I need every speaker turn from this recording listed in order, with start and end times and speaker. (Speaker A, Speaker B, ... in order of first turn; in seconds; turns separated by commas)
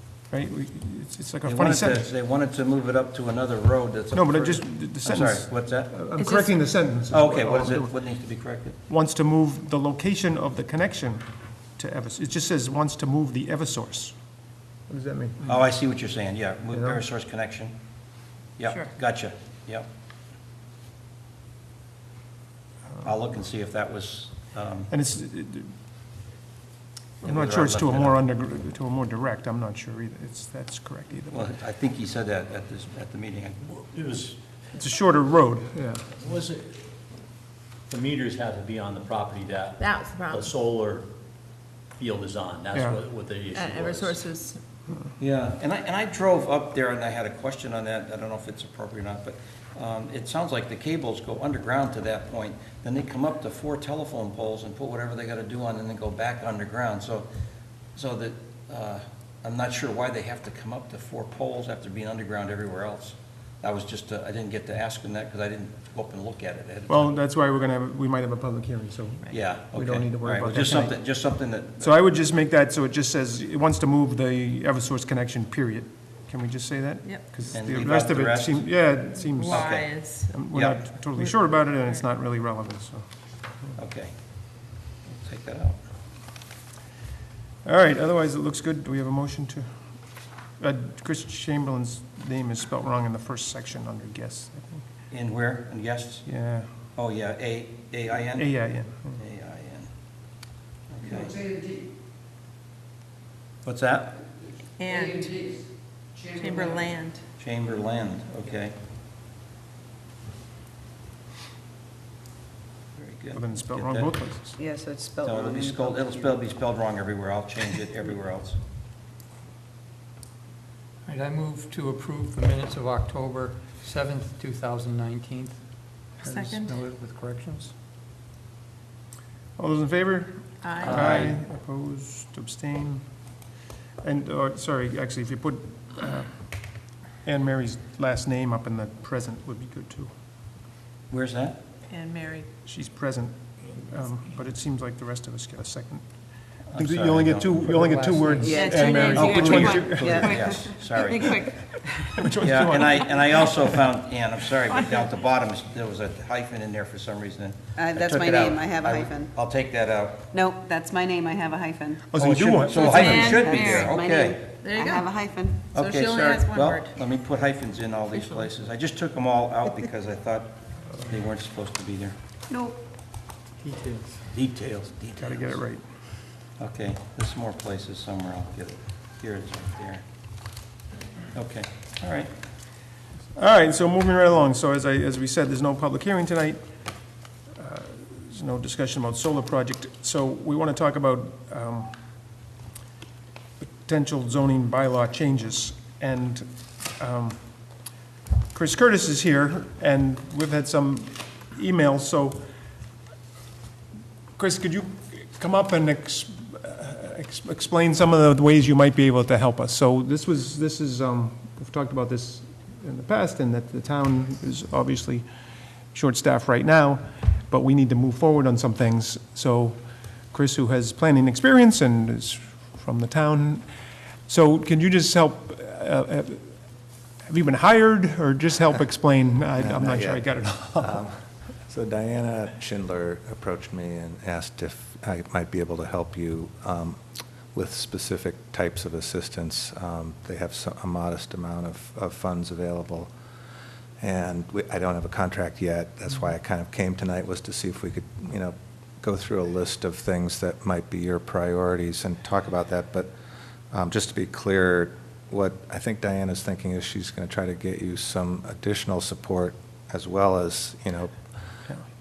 Speaker A: 0.3-2.1, Speaker B: 1.4-5.9, Speaker A: 4.1-8.0, Speaker C: 6.2-6.5, Speaker B: 7.1-8.8, Speaker A: 8.9-11.2, Speaker A: 11.8-14.1, Speaker A: 14.9-15.6, Speaker B: 15.4-17.7, Speaker A: 16.7-17.0, Speaker B: 18.6-19.9, Speaker B: 23.0-24.9, Speaker A: 24.9-25.7, Speaker A: 27.2-31.5, Speaker B: 27.2-28.2, Speaker B: 31.3-33.7, Speaker D: 33.7-34.4, Speaker A: 34.7-36.1, Speaker D: 36.1-36.9, Speaker D: 37.9-41.1, Speaker D: 42.0-44.3, Speaker A: 42.7-43.0, Speaker C: 43.6-44.5, Speaker B: 45.2-57.3, Speaker B: 57.9-67.1, Speaker A: 66.9-71.0, Speaker B: 69.3-71.9, Speaker A: 71.8-83.0, Speaker B: 77.5-78.7, Speaker C: 79.4-80.3, Speaker B: 79.4-80.9, Speaker B: 83.8-84.1, Speaker B: 85.1-85.8, Speaker A: 87.6-89.7, Speaker A: 90.6-94.8, Speaker B: 95.1-96.3, Speaker A: 96.2-96.7, Speaker B: 96.9-98.5, Speaker A: 98.4-99.2, Speaker B: 99.1-99.9, Speaker B: 100.9-101.4, Speaker B: 103.6-104.2, Speaker C: 104.8-105.4, Speaker C: 106.3-107.2, Speaker B: 107.4-108.7, Speaker B: 113.0-114.1, Speaker A: 113.3-114.6, Speaker E: 114.6-116.3, Speaker B: 115.2-118.6, Speaker F: 121.0-125.6, Speaker C: 126.2-126.8, Speaker F: 126.2-127.7, Speaker A: 129.6-133.0, Speaker C: 130.6-131.2, Speaker D: 130.8-131.3, Speaker A: 134.0-136.4, Speaker A: 137.2-140.1, Speaker B: 141.1-141.6, Speaker C: 141.9-142.5, Speaker A: 142.6-146.0, Speaker B: 146.7-147.6, Speaker A: 146.7-150.6, Speaker F: 147.6-149.4, Speaker E: 148.4-148.8, Speaker C: 148.5-152.2, Speaker B: 149.1-151.7, Speaker E: 149.8-150.7, Speaker A: 152.1-153.7, Speaker B: 152.4-160.3, Speaker E: 157.8-159.3, Speaker E: 160.3-162.0, Speaker A: 162.1-163.6, Speaker B: 162.2-164.4, Speaker C: 162.7-164.0, Speaker E: 163.1-165.8, Speaker C: 164.6-165.1, Speaker B: 165.7-172.1, Speaker C: 165.8-166.9, Speaker E: 172.5-172.8, Speaker F: 173.6-174.1, Speaker B: 174.3-175.6, Speaker A: 175.2-175.8, Speaker B: 176.6-180.0, Speaker B: 181.3-182.3, Speaker A: 183.3-186.6, Speaker A: 187.5-192.0, Speaker A: 193.6-197.4, Speaker A: 198.5-202.5, Speaker A: 204.4-215.2, Speaker A: 215.9-219.8, Speaker A: 220.3-223.6, Speaker A: 224.3-226.5, Speaker A: 227.3-231.0, Speaker G: 229.6-237.0, Speaker G: 237.5-243.1, Speaker G: 244.0-253.1, Speaker G: 253.7-261.6